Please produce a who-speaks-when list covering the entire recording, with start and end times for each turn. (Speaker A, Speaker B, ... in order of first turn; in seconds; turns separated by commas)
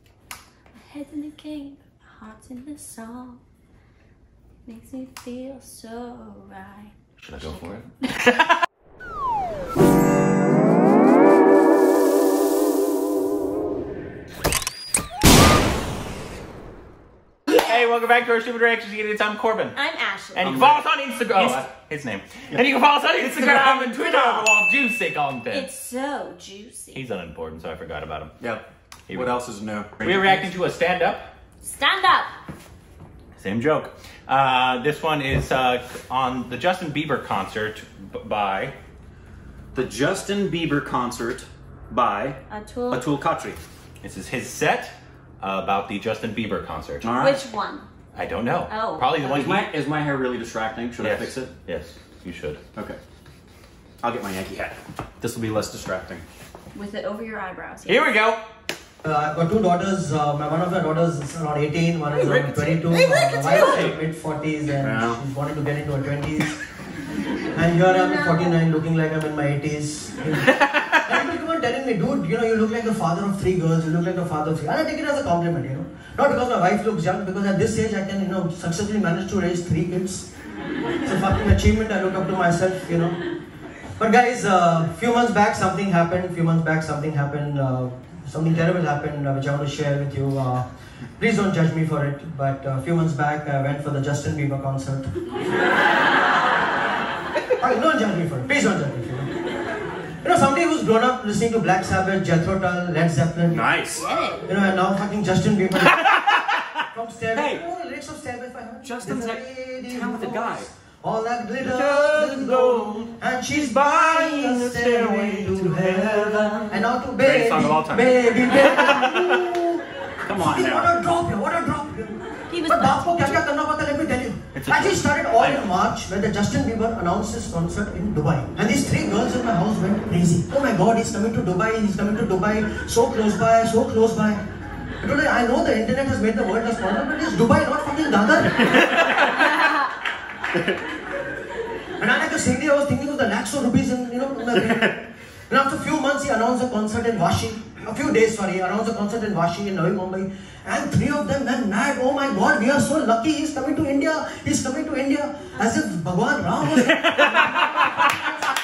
Speaker A: 0.7-3.4, Speaker A: 4.7-7.7, Speaker B: 7.2-7.9, Speaker B: 17.5-19.8, Speaker A: 19.8-20.5, Speaker B: 20.3-25.7, Speaker C: 20.4-21.7, Speaker A: 23.2-24.5, Speaker A: 25.5-27.0, Speaker B: 26.9-28.4, Speaker C: 28.4-30.5, Speaker B: 29.1-29.3, Speaker B: 30.0-31.3, Speaker A: 31.6-32.3, Speaker B: 33.4-38.8, Speaker C: 39.7-42.4, Speaker A: 42.5-43.0, Speaker C: 42.9-43.6, Speaker B: 44.0-47.1, Speaker C: 47.0-47.4, Speaker A: 47.2-47.9, Speaker B: 48.1-49.7, Speaker A: 48.7-49.2, Speaker C: 49.2-51.5, Speaker B: 51.0-52.6, Speaker C: 52.7-53.0, Speaker C: 54.0-56.2, Speaker A: 56.7-58.1, Speaker B: 57.9-58.5, Speaker D: 59.0-66.6, Speaker C: 62.1-62.9, Speaker A: 62.9-63.9, Speaker C: 63.5-64.0, Speaker C: 64.8-65.2, Speaker D: 67.5-80.3, Speaker B: 70.5-71.0, Speaker D: 81.0-83.2, Speaker D: 84.0-90.7, Speaker D: 91.2-95.1, Speaker D: 97.6-99.3, Speaker D: 100.2-103.6, Speaker C: 103.5-104.1, Speaker A: 104.0-104.4, Speaker D: 104.5-106.1, Speaker C: 105.9-106.6, Speaker D: 106.9-119.8, Speaker C: 107.3-107.6, Speaker C: 108.8-110.7, Speaker B: 111.6-113.1, Speaker B: 113.8-116.6, Speaker B: 117.2-119.5, Speaker C: 120.2-121.0, Speaker D: 120.3-134.4, Speaker A: 122.5-123.4, Speaker B: 124.5-125.1, Speaker C: 125.4-125.8, Speaker D: 135.0-138.7, Speaker D: 142.0-158.2